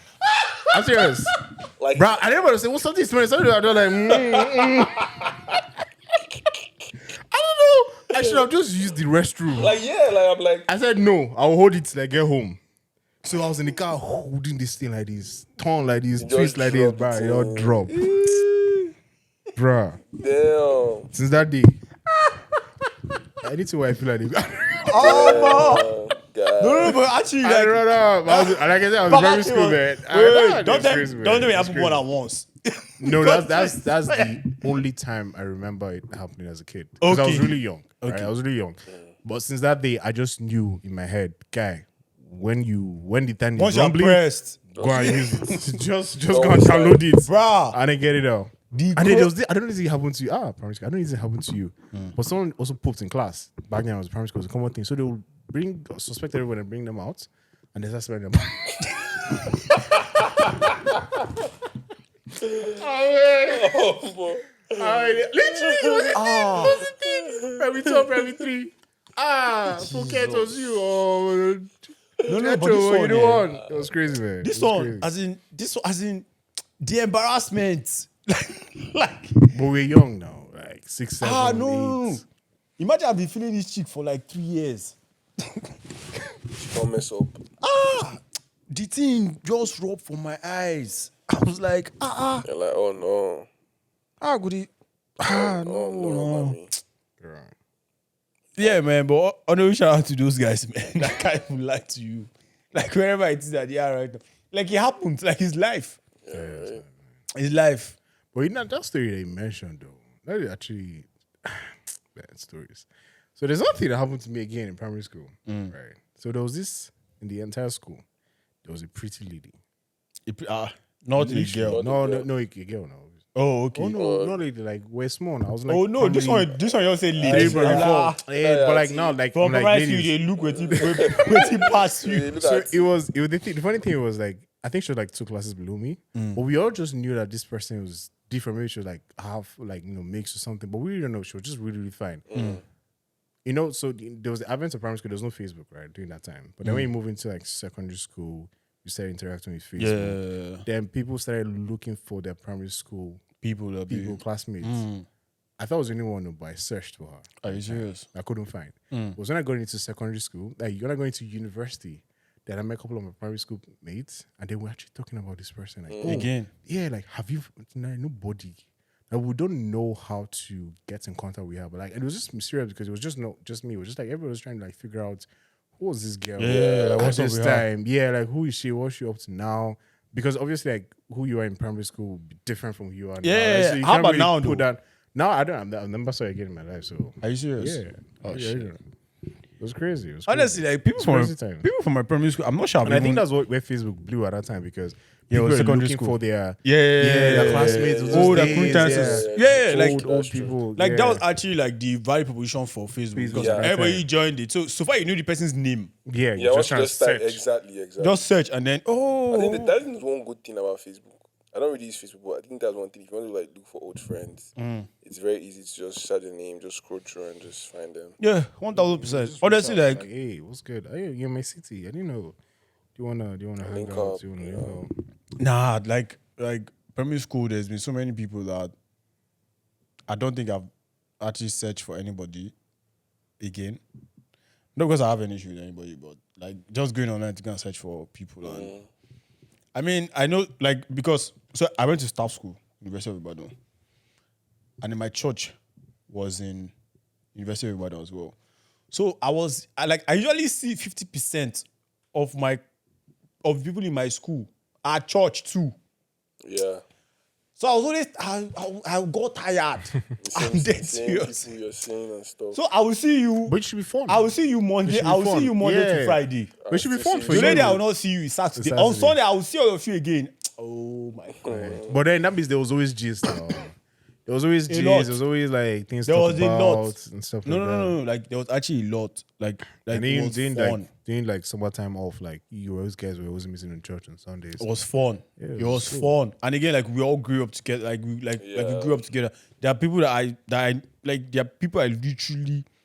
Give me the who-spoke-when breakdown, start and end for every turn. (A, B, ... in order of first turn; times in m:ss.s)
0:00.2-0:00.6 A
0:00.7-0:01.3 B
0:01.8-0:02.2 A
0:01.9-0:05.6 B
0:04.1-0:05.6 A
0:07.3-0:09.8 B
0:08.1-0:08.4 A
0:09.6-0:10.7 A
0:10.7-0:12.6 B
0:13.2-0:17.9 B
0:16.2-0:17.9 A
0:17.9-0:18.9 C
0:19.6-0:20.0 B
0:20.1-0:21.1 A
0:21.1-0:21.8 B
0:23.4-0:25.7 B
0:24.9-0:25.9 C
0:25.0-0:27.0 A
0:26.6-0:34.6 C
0:27.4-0:32.0 B
0:33.0-0:59.0 B
0:37.0-0:38.3 C
0:43.6-0:44.6 C
0:44.8-0:45.5 A
0:45.2-0:45.6 C
0:46.3-0:47.0 A
0:47.2-0:47.8 C
0:48.7-0:49.3 C
0:59.1-0:59.5 C
0:59.7-1:01.0 A
1:02.4-1:02.7 A
1:02.6-1:03.8 B
1:03.5-1:08.0 A
1:04.8-1:15.1 B
1:06.1-1:06.9 C
1:09.9-1:10.4 C
1:12.2-1:13.4 C
1:13.5-1:13.9 A
1:14.4-1:16.2 C
1:16.8-1:19.5 C
1:19.5-1:22.2 B
1:21.2-1:22.2 C
1:22.8-1:25.0 C
1:26.5-1:27.4 A
1:27.6-1:32.4 C
1:32.4-1:33.4 A
1:34.2-1:36.6 C
1:35.2-1:36.7 A
1:37.2-1:37.5 B
1:38.6-1:46.0 C
1:46.2-1:46.8 A
1:46.3-1:46.9 B
1:47.3-1:47.9 C
1:48.3-1:58.0 B
1:55.5-1:55.7 C
1:58.6-1:59.6 B
2:00.3-2:01.8 C
2:01.1-2:03.2 B
2:01.6-2:02.3 A
2:03.3-2:04.0 C
2:03.7-2:06.6 B
2:04.0-2:04.4 A
2:05.7-2:08.2 C
2:07.2-2:10.1 B
2:07.3-2:09.2 A
2:09.3-2:12.3 C
2:10.4-2:12.9 A
2:10.7-2:11.6 B
2:12.4-2:22.3 B
2:16.1-2:16.4 C
2:22.3-2:22.6 A
2:22.3-2:22.6 C
2:23.4-2:33.2 B
2:26.6-2:26.9 C
2:29.8-2:30.6 C
2:33.4-2:35.0 C
2:33.9-2:34.9 B
2:35.6-3:08.8 B
2:37.4-2:38.1 C
2:38.9-2:39.2 C
2:45.9-2:46.3 A
2:46.0-2:46.5 C
2:56.4-2:57.6 C
2:56.5-2:57.1 A
3:03.2-3:04.7 C
3:07.2-3:08.7 C
3:09.6-3:11.7 B
3:10.3-3:13.2 C
3:12.8-3:21.2 B
3:15.3-3:25.9 C
3:17.2-3:20.6 A
3:23.1-3:24.0 B
3:23.3-3:23.7 A
3:26.0-3:27.4 B
3:26.4-3:28.3 A
3:28.0-3:29.8 C
3:29.3-3:34.5 A
3:34.6-3:34.9 C
3:35.0-3:38.2 A
3:38.2-3:40.0 C
3:38.7-3:42.4 B
3:42.9-3:44.9 B
3:43.6-3:44.8 A
3:45.4-3:48.7 C
3:50.1-3:50.7 C
3:51.2-3:52.5 C
3:53.4-3:53.8 C
3:54.8-3:58.7 C
3:58.4-3:58.9 A
3:59.7-4:03.5 C
4:04.8-4:05.6 C
4:06.1-4:06.7 C
4:07.3-4:08.3 C
4:08.9-4:12.6 C
4:13.4-4:15.8 C
4:16.4-4:16.8 A
4:17.6-4:21.5 C
4:20.2-4:22.6 A
4:22.5-4:26.5 C
4:23.4-4:24.3 B
4:24.8-4:27.8 B
4:26.6-4:27.7 A
4:27.2-4:31.8 C
4:28.5-4:29.2 B
4:31.3-4:32.0 A
4:31.9-4:33.7 B
4:34.2-4:38.0 B
4:34.7-4:35.2 C
4:36.0-4:40.9 C
4:39.9-4:44.7 B
4:44.6-4:52.6 C
4:45.4-4:46.2 B
4:48.4-4:49.1 A